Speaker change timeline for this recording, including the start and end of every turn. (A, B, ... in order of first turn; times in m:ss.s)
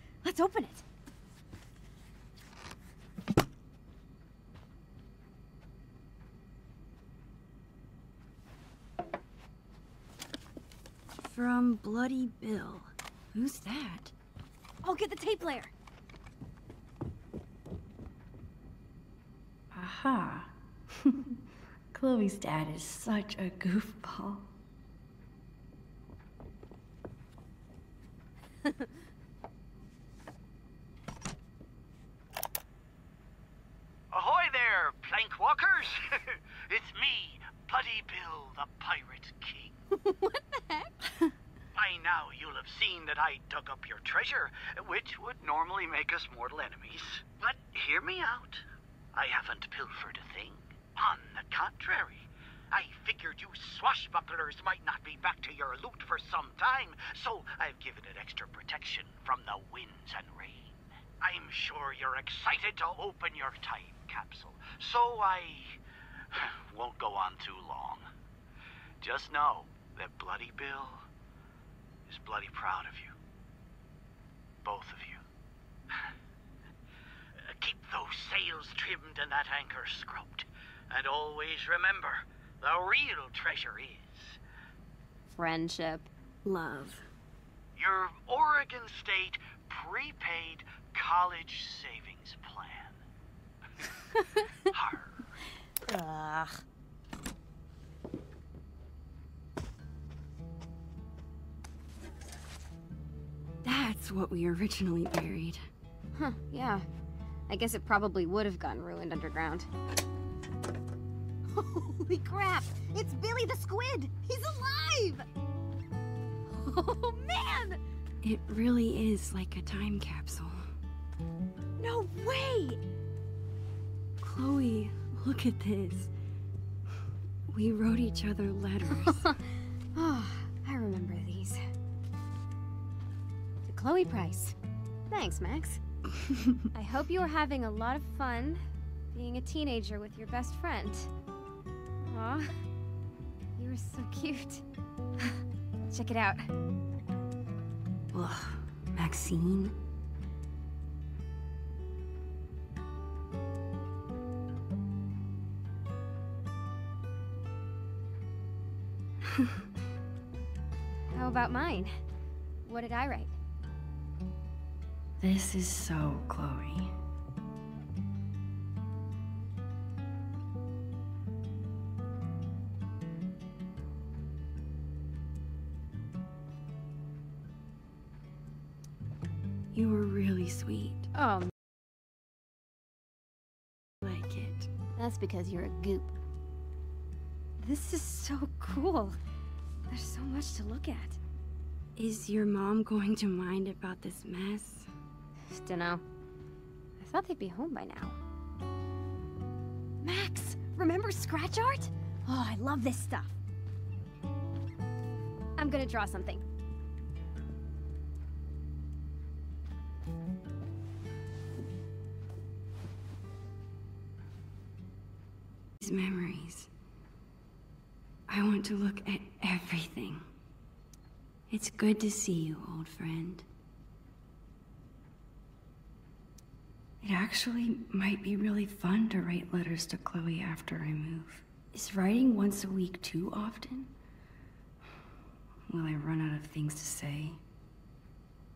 0:00.2-0:00.8 A
0:11.2-0:14.1 B
0:14.8-0:15.7 A
0:19.7-0:21.4 B
0:21.9-0:24.5 B
0:34.1-0:39.8 C
0:39.9-0:41.2 A
0:41.7-1:05.8 C
1:06.3-1:08.1 C
1:09.0-1:11.1 C
1:12.1-1:13.2 C
1:14.6-1:15.2 C
1:17.4-1:24.4 C
1:25.3-1:26.1 A
1:26.4-1:27.0 B
1:27.8-1:33.0 C
1:34.7-1:35.2 C
1:35.8-1:36.6 A
1:43.6-1:45.6 B
1:46.1-1:46.9 A
1:47.5-1:49.7 A
1:51.5-1:55.2 A
1:56.5-1:57.8 A
1:58.2-2:00.7 B
2:01.8-2:02.8 A
2:04.2-2:06.1 B
2:07.5-2:09.4 B
2:08.9-2:11.6 A
2:13.7-2:14.6 A
2:15.1-2:15.8 A
2:16.7-2:18.6 A
2:19.1-2:21.1 A
2:22.0-2:22.5 A
2:23.6-2:24.6 A
2:25.9-2:26.4 A
2:28.1-2:29.8 B
2:41.1-2:41.9 A
2:42.6-2:43.3 A
2:45.2-2:46.9 B
2:59.7-3:01.1 B
3:01.2-3:01.5 A
3:04.0-3:04.7 B
3:05.0-3:06.2 A
3:07.6-3:09.2 A
3:09.9-3:11.2 A
3:12.0-3:14.9 B
3:15.5-3:16.0 A
3:17.0-3:18.2 A
3:20.0-3:23.4 A
3:25.6-3:26.4 A
3:35.8-3:36.7 B
3:38.3-3:40.3 B
3:41.5-3:43.5 B
3:47.0-3:53.9 B
3:55.7-3:57.4 B